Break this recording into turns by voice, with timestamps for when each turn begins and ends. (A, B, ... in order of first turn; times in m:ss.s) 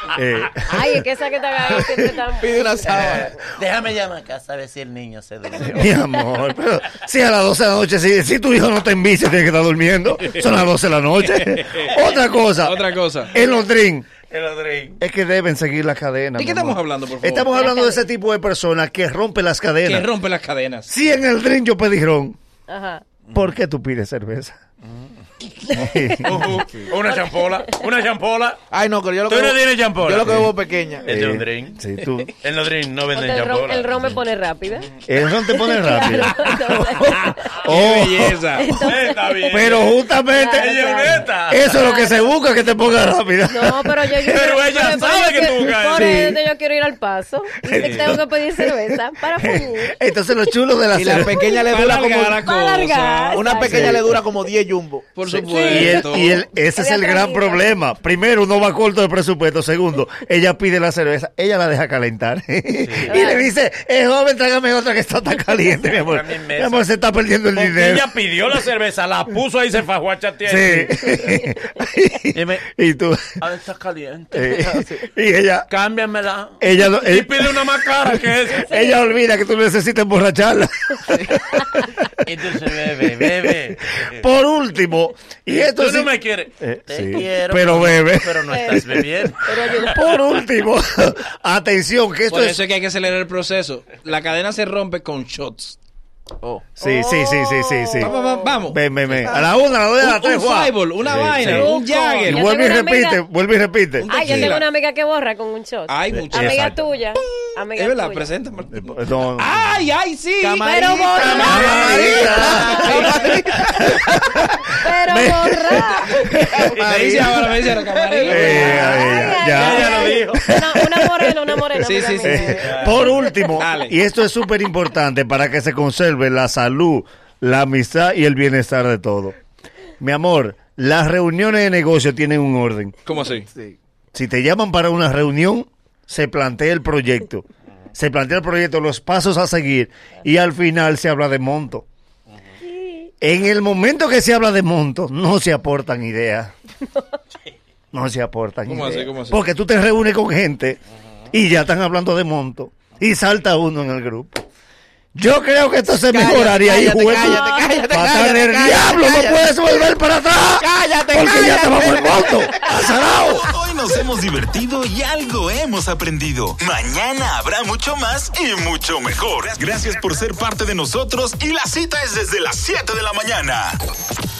0:00.1-0:01.0 A
0:00.6-0:03.4 B
0:02.4-0:03.3 C
0:02.8-0:06.0 D
0:05.7-0:12.8 A
0:11.4-0:11.9 E
0:12.6-0:13.3 E
0:13.3-0:14.1 A
0:14.2-0:15.0 D
0:15.0-0:20.1 A
0:16.4-0:17.7 E
0:17.5-0:18.0 B
0:19.8-0:20.9 E
0:20.9-0:22.4 A
0:22.7-0:23.0 B
0:23.3-0:23.5 D
0:23.3-0:24.6 A
0:24.8-0:25.1 D
0:25.7-0:26.5 A
0:26.2-0:28.6 D
0:27.0-0:27.6 B
0:28.7-0:31.1 C
0:29.2-0:30.5 D
0:30.2-0:30.5 A
0:31.0-0:32.3 A
0:31.0-0:31.8 D
0:32.4-0:34.2 D
0:33.1-0:34.9 B
0:35.0-0:38.9 A
0:35.4-0:37.6 B
0:37.5-0:38.7 E
0:38.5-0:42.2 B
0:38.8-0:42.0 D
0:39.5-0:44.1 A
0:43.5-0:50.0 B
0:44.2-0:46.3 D
0:45.9-0:46.4 C
0:47.7-0:48.7 A
0:47.7-0:48.2 D
0:49.4-0:51.5 A
0:50.9-0:52.4 C
0:51.2-0:54.0 E
0:52.4-0:54.0 B
0:53.3-0:55.8 C
0:55.2-0:56.4 E
0:55.5-1:08.2 A
0:56.7-0:57.7 B
1:02.8-1:03.4 D
1:03.1-1:03.5 B
1:05.8-1:06.9 D
1:07.5-1:11.2 D
1:10.4-1:13.4 A
1:12.3-1:12.7 D
1:13.4-1:14.6 D
1:14.3-1:15.7 A
1:14.6-1:15.0 C
1:15.7-1:18.7 D
1:16.6-1:21.9 A
1:18.6-1:19.0 B
1:22.2-1:24.2 D
1:24.1-1:28.9 A
1:25.5-1:30.0 D
1:28.5-1:30.1 B
1:29.8-1:32.6 A
1:32.3-1:35.8 E
1:36.8-1:38.1 A
1:36.8-1:38.7 B
1:38.0-1:42.5 E
1:38.7-1:41.7 A
1:41.0-1:41.6 D
1:41.5-1:43.2 B
1:42.2-1:44.5 A
1:44.0-1:44.7 E
1:44.1-1:48.3 B
1:45.9-1:46.7 E
1:46.3-1:46.7 A
1:47.7-1:53.0 E
1:48.7-1:49.6 A
1:50.4-1:54.6 C
1:50.6-1:53.1 B
1:51.1-1:52.3 D
1:51.4-1:53.1 A
1:54.7-1:56.4 B
1:55.1-1:56.6 A
1:56.6-1:57.6 C
1:56.7-1:59.0 E
1:58.1-2:03.4 B
1:58.2-2:00.4 D
1:58.3-2:01.3 A
2:01.8-2:02.4 E
2:02.2-2:09.4 A
2:02.4-2:03.2 D
2:03.5-2:03.9 E
2:10.0-2:12.9 A
2:13.0-2:13.5 E
2:13.4-2:13.8 C
2:14.1-2:21.8 A
2:23.2-2:26.5 A
2:27.9-2:30.8 A
2:28.6-2:29.4 E
2:31.3-2:34.4 A
2:35.1-2:43.5 A
2:36.0-2:39.5 C
2:37.1-2:37.9 B
2:40.6-2:43.0 C
2:43.5-2:53.8 F